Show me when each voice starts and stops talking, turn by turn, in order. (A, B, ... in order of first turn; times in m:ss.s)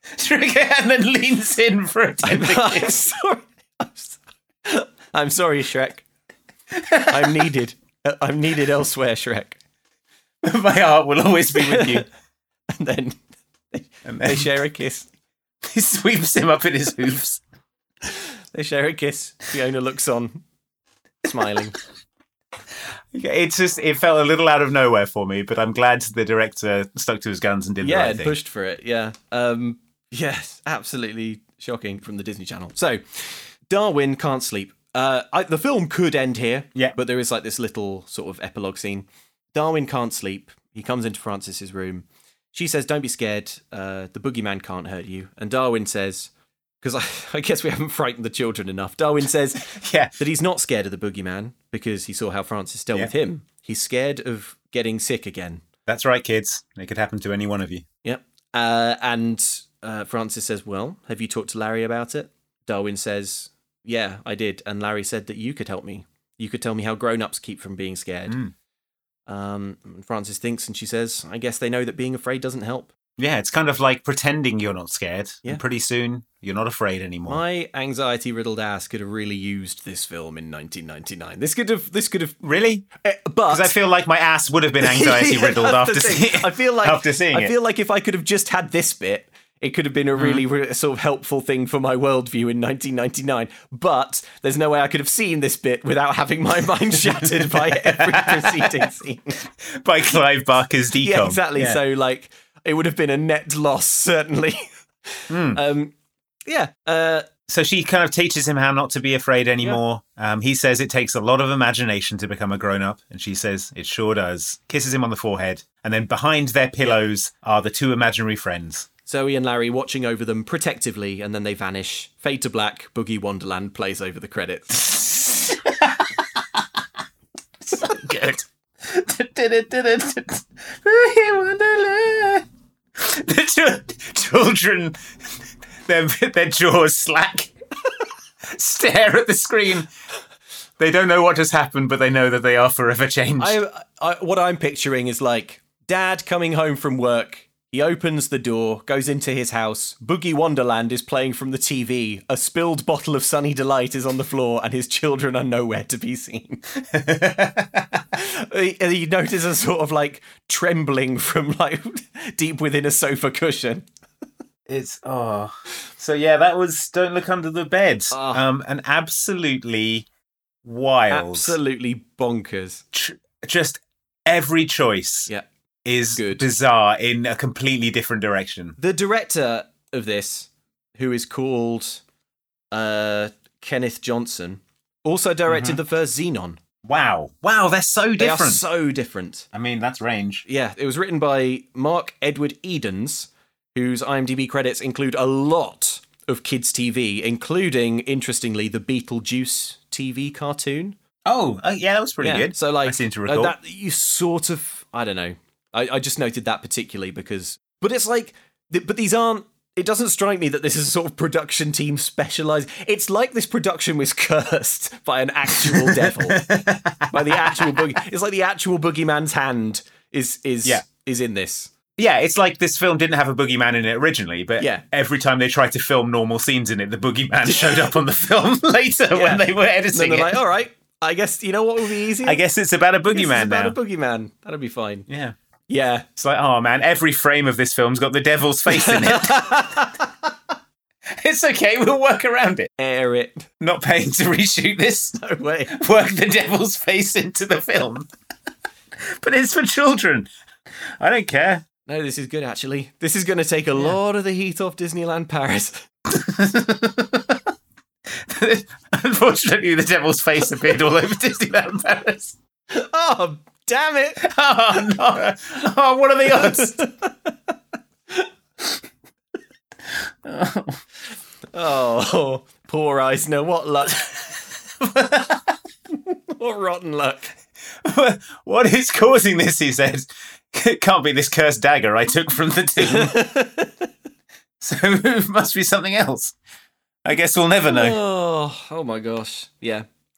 0:00.2-0:03.0 A
0:02.2-0:06.0 B
0:06.7-0:07.5 A
0:07.1-0:09.6 B
0:10.4-0:12.1 A
0:11.6-0:12.1 B
0:12.7-0:13.2 B
0:13.7-0:15.1 B
0:14.0-0:14.6 A
0:15.6-0:17.4 A
0:18.0-0:20.4 B
0:21.2-0:21.8 B
0:23.1-0:28.4 A
0:27.8-0:46.3 B
0:46.8-0:55.6 B
0:49.7-0:50.2 A
0:55.9-0:57.8 A
0:58.0-1:08.4 B
1:08.3-1:08.5 A
1:09.3-1:12.9 B
1:13.2-1:17.4 A
1:17.3-1:22.4 B
1:22.4-1:22.9 A
1:23.0-1:23.7 B
1:23.5-1:27.5 A
1:24.8-1:39.4 B
1:30.2-1:30.4 A
1:37.0-1:38.9 A
1:39.6-1:41.8 A
1:41.0-1:45.9 B
1:45.3-1:45.6 A
1:46.5-1:47.3 B
1:47.5-1:58.9 A
1:59.1-2:05.0 B
2:04.9-2:06.6 A
2:07.7-2:15.0 A
2:15.8-2:17.5 A
2:18.5-2:19.9 A
2:20.8-2:23.6 A
2:23.4-2:36.6 B
2:36.8-2:38.0 A
2:38.2-2:43.8 B
2:44.7-2:50.1 A
2:48.1-2:48.4 B
2:50.6-2:51.6 A
2:51.1-2:52.8 B
2:52.9-2:55.3 A
2:55.8-2:58.8 A
2:56.1-2:56.5 B
2:58.8-3:02.0 B
3:02.7-3:06.6 B
3:05.5-3:05.8 A
3:06.8-3:08.6 A
3:08.2-3:09.5 B
3:09.5-3:10.5 A
3:10.5-3:21.0 B
3:21.3-3:23.6 A
3:22.2-3:36.5 B
3:35.6-3:37.9 A
3:37.1-3:41.7 B
3:42.0-3:50.4 A
3:44.6-3:44.8 B
3:47.5-3:47.9 B
3:49.1-3:52.4 B
3:52.2-3:53.8 A
3:53.1-3:55.1 B
3:55.1-3:55.4 A
3:55.7-3:56.1 B
3:56.2-3:59.8 A
3:58.7-4:00.0 B
4:01.1-4:02.7 A
4:02.8-4:03.5 B
4:03.6-4:08.1 A
4:05.2-4:05.7 B
4:09.0-4:10.3 A
4:11.0-4:11.6 A
4:11.8-4:15.9 B
4:16.1-4:17.5 A
4:18.1-4:22.4 A
4:22.7-4:24.3 B
4:24.2-4:26.8 A
4:26.4-4:27.3 B
4:30.2-4:30.8 A
4:31.5-4:34.1 B
4:34.8-4:35.6 A
4:36.3-4:37.3 B
4:37.8-4:43.2 A
4:42.8-4:43.9 B
4:44.6-4:46.4 A
4:47.0-4:48.0 A
4:47.7-4:49.9 B